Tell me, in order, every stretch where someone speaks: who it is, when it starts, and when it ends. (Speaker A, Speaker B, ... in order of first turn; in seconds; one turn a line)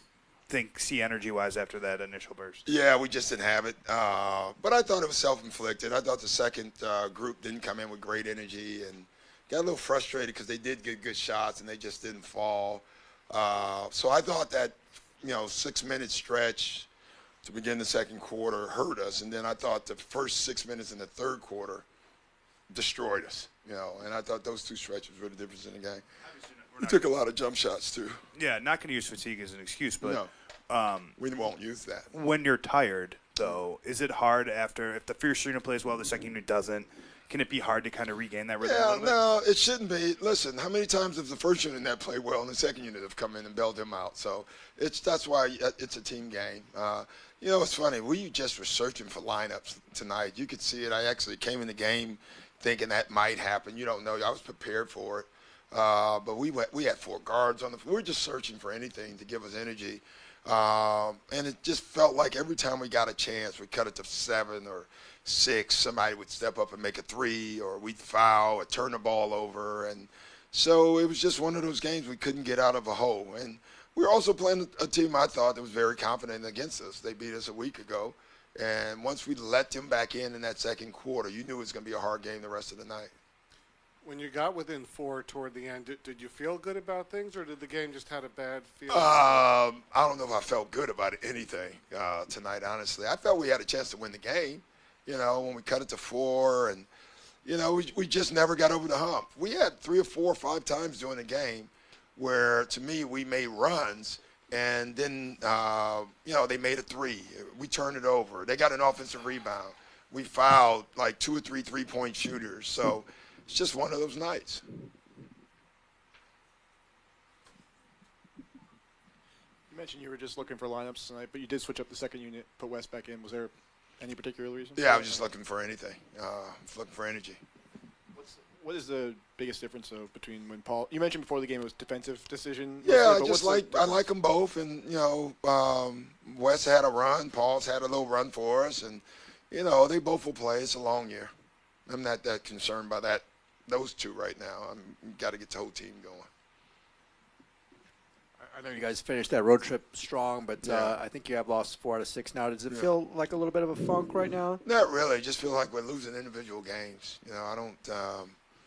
Speaker A: 0.5-2.6
Speaker B: 2.7-16.9
Speaker B: 17.4-21.9
Speaker B: 22.7-26.0
Speaker B: 26.8-28.2
Speaker A: 28.4-31.2
Speaker B: 30.0-30.3
Speaker B: 31.2-32.1
Speaker A: 32.1-39.2
Speaker B: 38.6-83.1
Speaker C: 84.0-89.5
Speaker B: 88.9-96.9
Speaker B: 97.5-114.6
Speaker D: 119.7-125.3
Speaker B: 124.8-127.4
Speaker D: 128.1-134.0
Speaker B: 132.8-141.3
Speaker B: 141.9-146.3
Speaker E: 148.4-154.6
Speaker B: 150.6-151.0
Speaker B: 154.6-158.4